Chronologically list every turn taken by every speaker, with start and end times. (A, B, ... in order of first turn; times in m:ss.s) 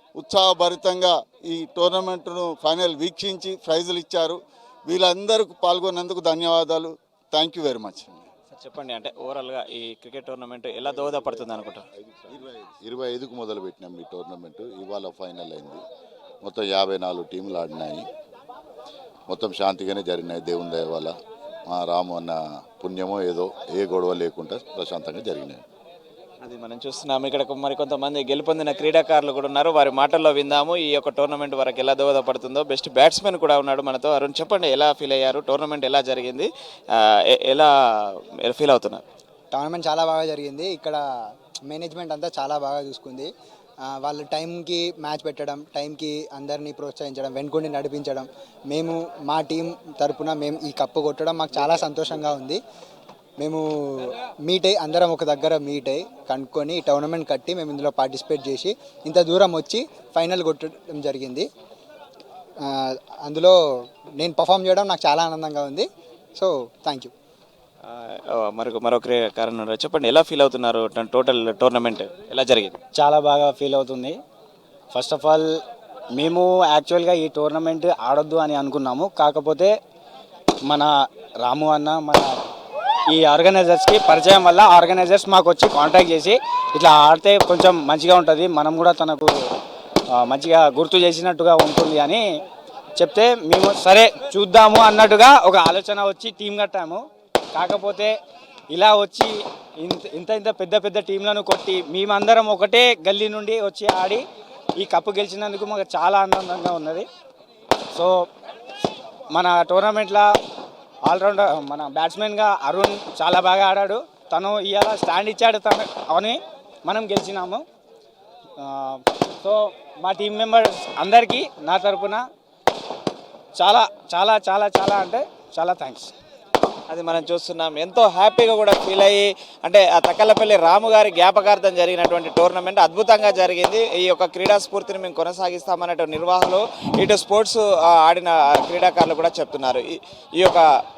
0:00.2-0:08.3 A
0:08.5-0:11.8 B
0:11.0-0:11.4 C
0:12.1-0:15.8 C
0:16.4-0:18.0 C
0:19.3-0:21.1 C
0:21.7-0:25.6 C
0:26.4-0:36.5 B
0:37.3-0:37.7 B
0:38.4-0:39.0 B
0:39.5-0:41.0 D
0:41.7-0:43.3 D
0:43.9-0:52.6 D
0:53.4-1:01.4 D
1:02.6-1:03.6 D
1:04.2-1:07.1 D
1:07.9-1:12.8 B
1:13.0-1:14.2 E
1:14.9-1:15.5 E
1:16.2-1:19.7 E
1:21.4-1:22.3 E
1:23.1-1:29.3 E
1:30.2-1:32.2 E
1:33.0-1:37.0 E
1:37.6-1:38.1 E
1:38.7-1:44.2 E
1:44.8-1:47.1 E
1:49.3-1:50.3 E
1:51.1-1:57.6 E
1:58.6-2:02.2 E
2:03.6-2:06.1 E
2:06.9-2:20.6 B